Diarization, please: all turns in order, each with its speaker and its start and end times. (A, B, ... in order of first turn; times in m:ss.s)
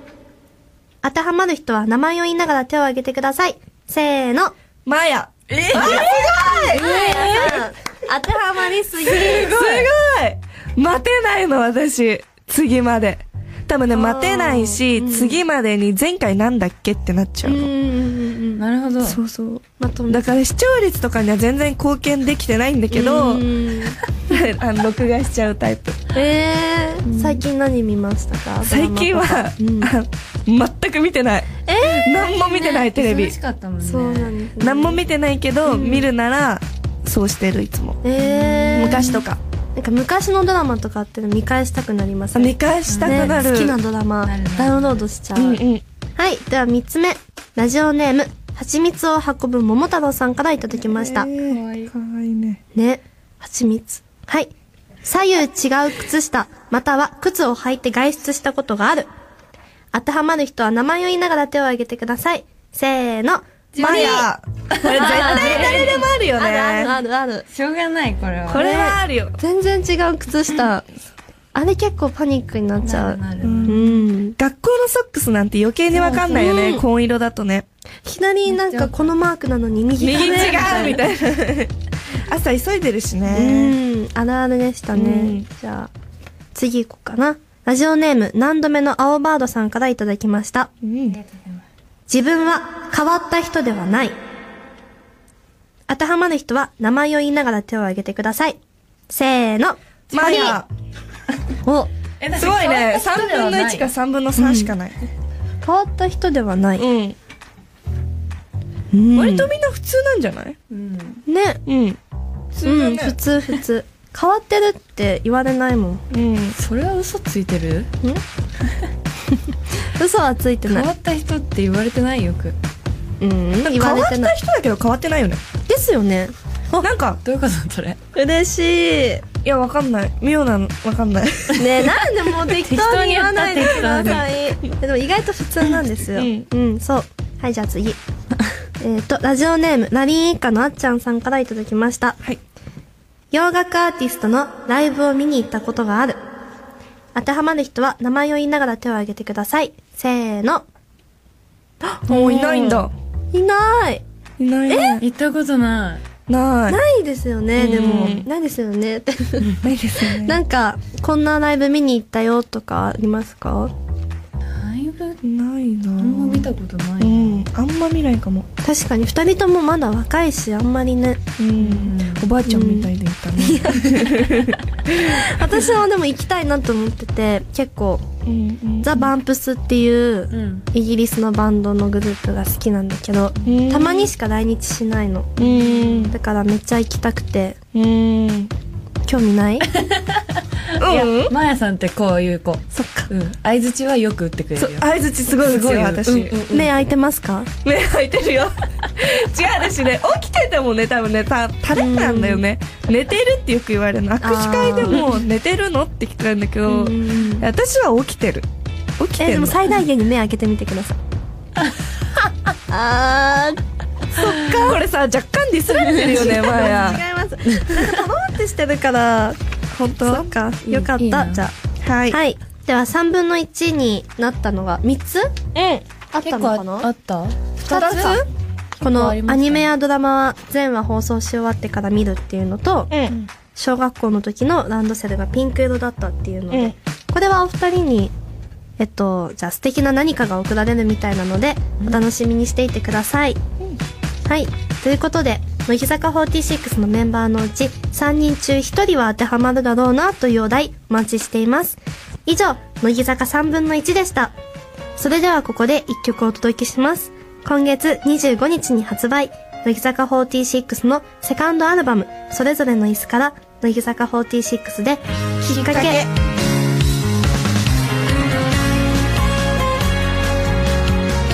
0:01.0-0:04.6 A
0:04.8-0:06.9 B
0:05.5-0:07.6 C
0:05.7-0:09.8 A
0:09.2-0:17.7 B
0:13.9-0:15.4 A
0:17.4-0:18.6 A
0:18.6-0:19.2 C
0:19.0-0:23.5 B
0:19.8-0:20.2 A
0:22.9-0:24.0 A
0:24.3-0:26.0 B
0:26.1-0:29.9 A
0:27.1-0:27.4 C
0:28.6-0:33.4 B
0:31.7-0:32.7 A
0:32.6-0:34.3 C
0:33.8-0:35.0 A
0:34.6-0:38.0 B
0:35.6-0:36.1 A
0:38.0-0:39.1 A
0:38.2-0:39.2 C
0:38.7-0:39.4 B
0:39.8-0:45.6 A
0:42.3-0:43.8 B
0:42.9-0:43.3 C
0:44.3-0:45.0 C
0:45.4-0:45.8 B
0:46.2-0:51.3 A
0:50.8-0:52.6 B
0:51.4-0:51.9 C
0:52.7-0:54.5 A
0:55.0-0:59.1 A
0:59.9-1:04.3 A
1:03.7-1:06.0 C
1:03.8-1:06.9 B
1:04.8-1:07.4 A
1:07.5-1:08.7 C
1:08.5-1:09.4 B
1:08.5-1:10.8 A
1:11.5-1:14.4 A
1:12.8-1:13.8 C
1:13.4-1:17.6 B
1:15.9-1:16.8 A
1:18.0-1:21.0 A
1:18.6-1:19.0 C
1:20.0-1:23.8 B
1:23.3-1:25.9 A
1:24.9-1:25.5 B
1:26.5-1:30.7 A
1:30.8-1:31.2 B
1:31.1-1:31.6 C
1:32.1-1:34.1 A
1:35.9-1:38.6 A
1:39.1-1:40.6 A
1:40.1-1:40.7 B
1:41.6-1:41.9 A
1:42.2-1:43.9 C
1:42.4-1:45.0 B
1:44.3-1:44.7 A
1:45.6-1:46.9 A
1:46.8-1:47.2 B
1:48.9-1:49.5 A
1:49.1-1:50.6 B
1:50.7-1:51.2 C
1:51.3-1:51.6 A
1:51.6-1:52.0 B
1:52.5-1:53.2 B
1:52.6-1:56.0 A
1:56.1-1:56.6 B
1:56.6-1:57.9 C
1:59.3-2:00.9 A
2:00.7-2:02.6 C
2:03.2-2:04.3 A
2:03.6-2:05.4 B
2:05.7-2:06.9 A
2:06.8-2:07.2 B
2:07.2-2:08.0 C
2:08.1-2:09.2 A
2:09.4-2:12.0 B
2:11.5-2:18.0 A
2:12.5-2:14.2 C
2:16.1-2:16.5 B
2:18.8-2:22.2 A
2:23.3-2:26.2 A
2:27.1-2:30.6 A
2:31.8-2:34.0 A
2:32.1-2:32.9 B
2:34.4-2:35.0 B
2:34.7-2:35.0 A
2:35.0-2:36.0 C
2:36.3-2:36.8 B
2:36.7-2:43.7 A
2:37.6-2:38.3 B
2:39.4-2:40.4 B
2:44.5-2:45.2 C
2:45.2-2:48.5 B
2:46.0-2:47.4 C
2:48.6-2:51.2 A
2:51.4-2:55.4 B
2:51.6-2:52.3 C
2:52.4-2:58.1 A
2:58.2-2:59.0 B
2:58.8-3:07.6 A
3:00.3-3:00.6 C
3:03.4-3:04.1 B
3:05.4-3:06.1 B
3:05.4-3:06.1 C
3:07.7-3:08.5 B
3:09.0-3:09.7 A
3:09.8-3:14.8 C
3:10.7-3:11.3 B
3:12.7-3:13.1 A
3:14.6-3:16.4 B
3:15.5-3:16.7 C
3:16.5-3:17.5 A
3:17.6-3:28.5 B
3:21.7-3:22.4 A
3:24.2-3:25.2 A
3:26.6-3:27.5 A
3:29.0-3:29.7 B
3:29.2-3:31.0 A
3:32.7-3:34.8 A
3:34.3-3:37.0 B
3:35.8-3:39.4 A
3:39.7-3:40.3 B
3:40.0-3:41.5 A
3:40.6-3:41.4 C
3:41.8-3:42.2 B
3:42.1-3:45.5 A
3:45.5-3:45.8 B
3:46.1-3:46.9 A
3:46.2-3:48.2 C
3:47.6-3:48.3 A
3:47.7-3:48.2 B
3:48.8-3:58.1 A
3:48.8-3:49.7 C
3:52.9-3:53.3 B
3:58.8-4:03.4 A
4:04.2-4:14.3 A
4:15.0-4:26.0 A
4:25.4-4:26.1 B